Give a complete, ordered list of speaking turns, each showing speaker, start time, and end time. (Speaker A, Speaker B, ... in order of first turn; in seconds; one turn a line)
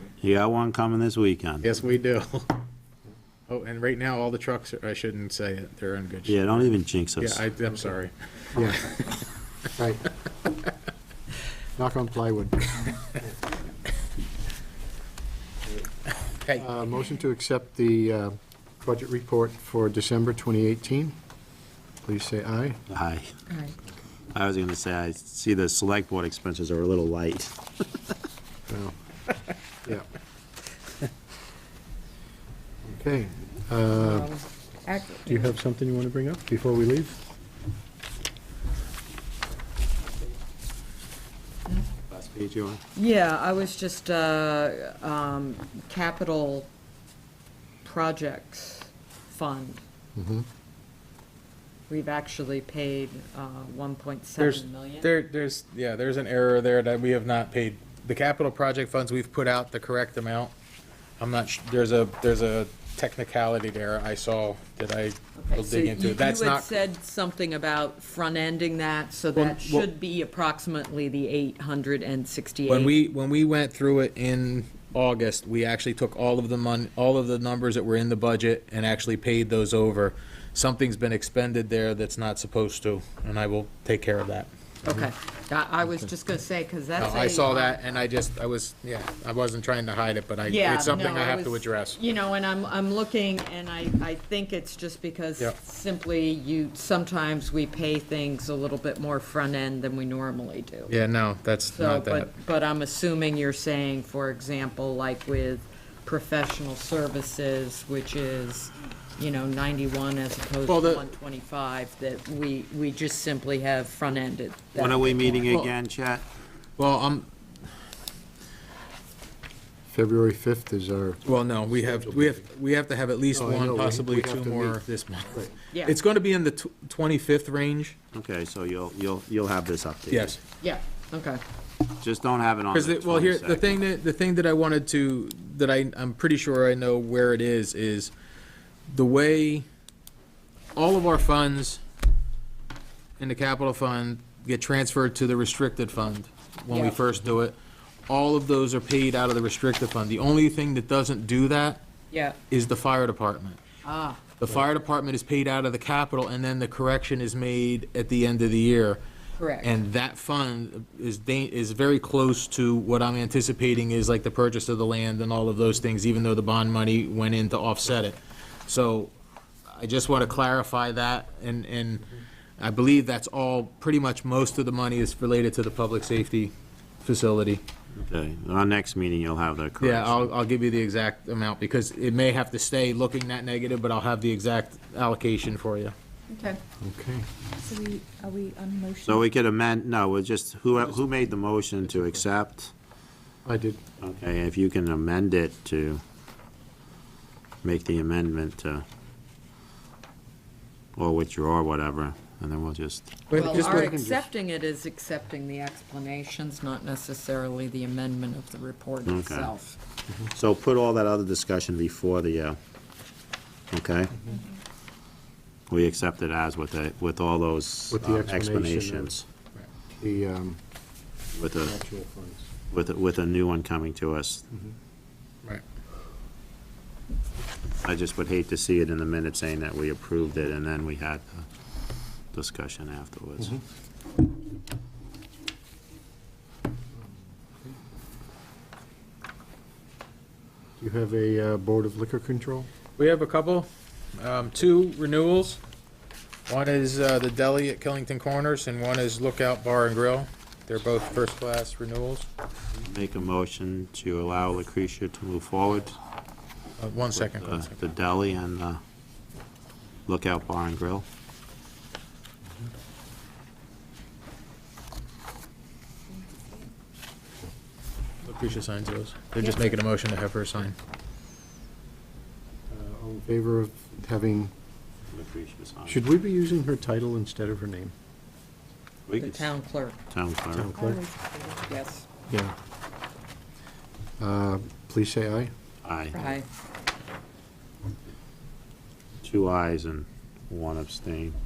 Speaker A: 0.2-1.6
Speaker B: 1.6-2.5
Speaker B: 3.5-9.2
Speaker A: 6.2-7.4
Speaker C: 8.5-8.8
Speaker C: 9.8-10.1
Speaker C: 11.8-13.2
Speaker C: 16.6-21.1
Speaker C: 22.0-22.8
Speaker A: 22.9-23.3
Speaker D: 23.5-23.8
Speaker A: 24.3-28.0
Speaker C: 28.7-28.9
Speaker C: 32.8-34.3
Speaker D: 34.0-35.5
Speaker C: 35.2-37.2
Speaker A: 42.1-42.8
Speaker D: 42.9-46.7
Speaker D: 47.8-49.8
Speaker C: 50.1-50.5
Speaker D: 51.9-55.1
Speaker B: 54.4-60.5
Speaker B: 61.2-66.7
Speaker D: 65.4-72.9
Speaker B: 69.3-69.9
Speaker B: 72.7-84.5
Speaker D: 84.8-88.0
Speaker B: 87.0-92.0
Speaker D: 90.5-100.9
Speaker B: 100.9-102.3
Speaker D: 101.7-115.5
Speaker B: 110.7-111.0
Speaker A: 114.7-116.2
Speaker B: 116.8-117.3
Speaker C: 119.9-122.4
Speaker B: 121.2-128.0
Speaker C: 123.3-125.5
Speaker D: 125.7-126.0
Speaker A: 128.1-130.4
Speaker B: 130.1-130.4
Speaker D: 130.6-131.4
Speaker A: 132.0-133.7
Speaker B: 132.7-138.1
Speaker B: 138.9-139.7
Speaker B: 140.7-141.8
Speaker B: 143.2-147.6
Speaker D: 146.7-146.9
Speaker B: 148.1-151.8
Speaker D: 152.1-152.4
Speaker B: 152.5-153.6
Speaker D: 153.8-154.3
Speaker B: 154.4-159.0
Speaker D: 159.4-159.7
Speaker B: 159.6-169.1
Speaker B: 169.7-172.1
Speaker B: 172.6-176.5
Speaker B: 177.0-177.6
Speaker A: 177.9-180.2
Speaker B: 179.8-185.9
Speaker D: 186.3-186.6
Speaker C: 186.8-187.3
Speaker E: 187.6-189.3
Speaker A: 189.0-192.7
Speaker C: 193.4-193.8
Speaker A: 194.0-196.0
Speaker A: 197.6-198.8
Speaker A: 200.9-203.2
Speaker B: 203.3-203.9
Speaker C: 203.3-204.3
Speaker D: 203.3-209.8
Speaker A: 209.1-209.5
Speaker A: 210.3-212.6
Speaker A: 213.7-214.1
Speaker A: 215.7-219.2
Speaker C: 217.9-219.1
Speaker C: 220.0-220.6
Speaker A: 221.3-221.7
Speaker C: 221.6-222.4
Speaker A: 222.7-224.4
Speaker A: 227.8-231.4
Speaker A: 232.3-233.6
Speaker C: 240.8-242.7
Speaker B: 243.0-245.6
Speaker B: 246.5-252.3
Speaker A: 252.8-256.0
Speaker B: 256.8-257.8
Speaker A: 257.1-258.8
Speaker A: 260.1-261.0
Speaker B: 268.2-270.7
Speaker C: 272.7-274.5
Speaker A: 275.1-276.0
Speaker C: 275.9-277.9
Speaker A: 279.1-279.5
Speaker D: 279.2-280.0
Speaker A: 280.1-280.7
Speaker C: 280.5-281.0
Speaker E: 280.7-281.7
Speaker D: 281.7-282.1
Speaker C: 282.3-282.5
Speaker C: 284.2-285.5
Speaker A: 285.8-286.3
Speaker D: 286.1-286.4
Speaker A: 289.2-291.4